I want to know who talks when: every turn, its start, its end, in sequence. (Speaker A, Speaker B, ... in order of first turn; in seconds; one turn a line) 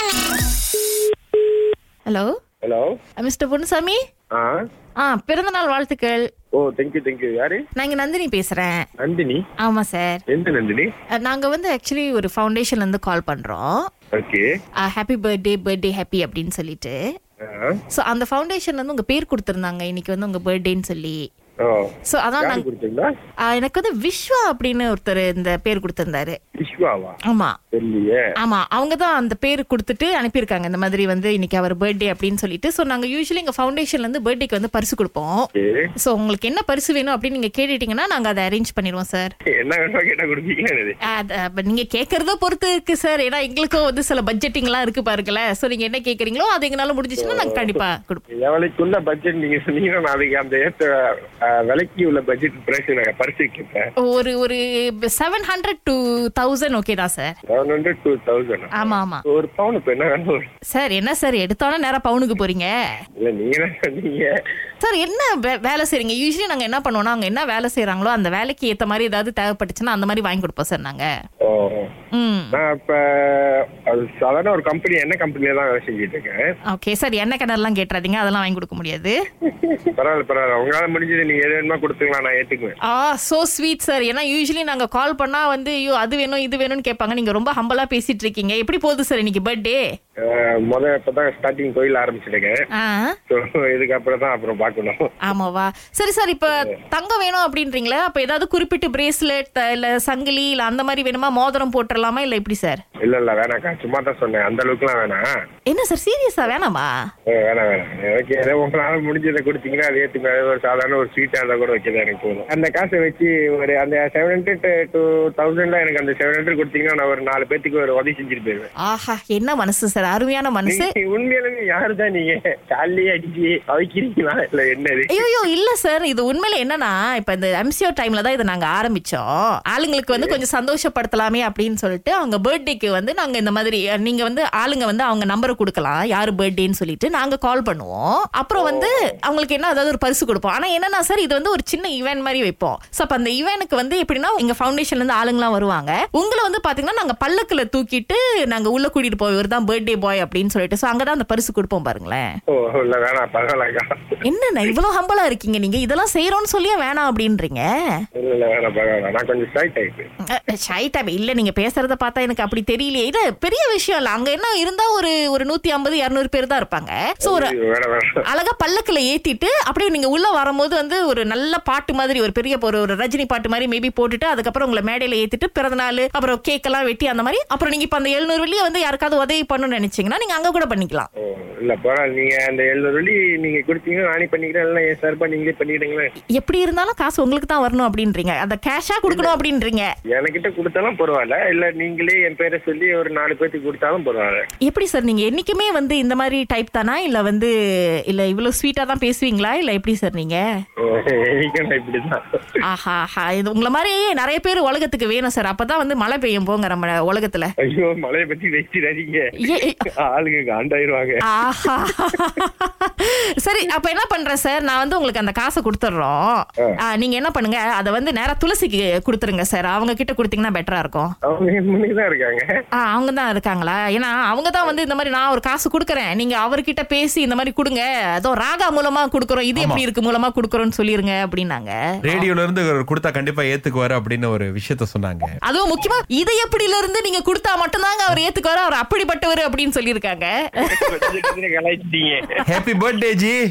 Speaker A: 3.2-4.0
Speaker A: 5.0-6.2
Speaker B: 6.5-7.6
Speaker A: 7.8-8.8
Speaker B: 9.0-9.4
Speaker A: 9.6-10.2
Speaker B: 10.3-10.9
Speaker A: 11.2-13.7
Speaker B: 14.1-14.4
Speaker A: 14.8-16.9
Speaker B: 17.4-17.8
Speaker A: 17.9-21.2
Speaker B: 21.6-23.1
Speaker A: 22.1-22.6
Speaker A: 23.5-26.4
Speaker B: 26.6-27.2
Speaker A: 27.2-27.5
Speaker B: 27.7-28.3
Speaker A: 28.4-35.5
Speaker B: 35.6-35.9
Speaker A: 36.0-39.3
Speaker B: 39.5-41.0
Speaker A: 41.1-48.2
Speaker B: 47.2-47.8
Speaker B: 48.3-50.9
Speaker B: 51.5-53.9
Speaker A: 54.1-57.3
Speaker B: 57.5-60.5
Speaker A: 58.8-59.2
Speaker A: 60.7-62.7
Speaker B: 63.2-64.3
Speaker A: 64.8-71.1
Speaker B: 71.4-71.9
Speaker A: 72.1-72.6
Speaker B: 72.5-76.4
Speaker A: 76.7-79.1
Speaker B: 79.4-82.7
Speaker A: 82.9-89.8
Speaker B: 90.2-92.6
Speaker A: 92.7-93.1
Speaker B: 93.3-95.1
Speaker A: 95.3-102.8
Speaker B: 103.0-105.2
Speaker A: 105.7-106.9
Speaker B: 107.3-118.7
Speaker A: 118.8-120.9
Speaker B: 120.7-125.2
Speaker A: 125.1-152.2
Speaker B: 130.1-130.4
Speaker B: 138.6-139.0
Speaker B: 152.5-153.9
Speaker A: 154.2-157.7
Speaker B: 158.2-160.1
Speaker A: 160.3-167.5
Speaker B: 167.2-168.2
Speaker A: 168.2-181.1
Speaker B: 181.2-186.1
Speaker A: 186.3-189.9
Speaker B: 189.1-189.4
Speaker B: 190.1-194.4
Speaker A: 194.6-197.5
Speaker A: 198.1-200.4
Speaker B: 200.8-202.2
Speaker A: 202.6-207.5
Speaker B: 207.6-209.2
Speaker A: 209.4-209.8
Speaker B: 209.9-211.2
Speaker A: 211.3-221.1
Speaker B: 212.1-212.4
Speaker B: 221.2-222.5
Speaker A: 222.8-232.2
Speaker C: 229.6-229.8
Speaker C: 232.1-235.3
Speaker A: 235.4-241.0
Speaker B: 240.6-242.4
Speaker C: 242.4-243.4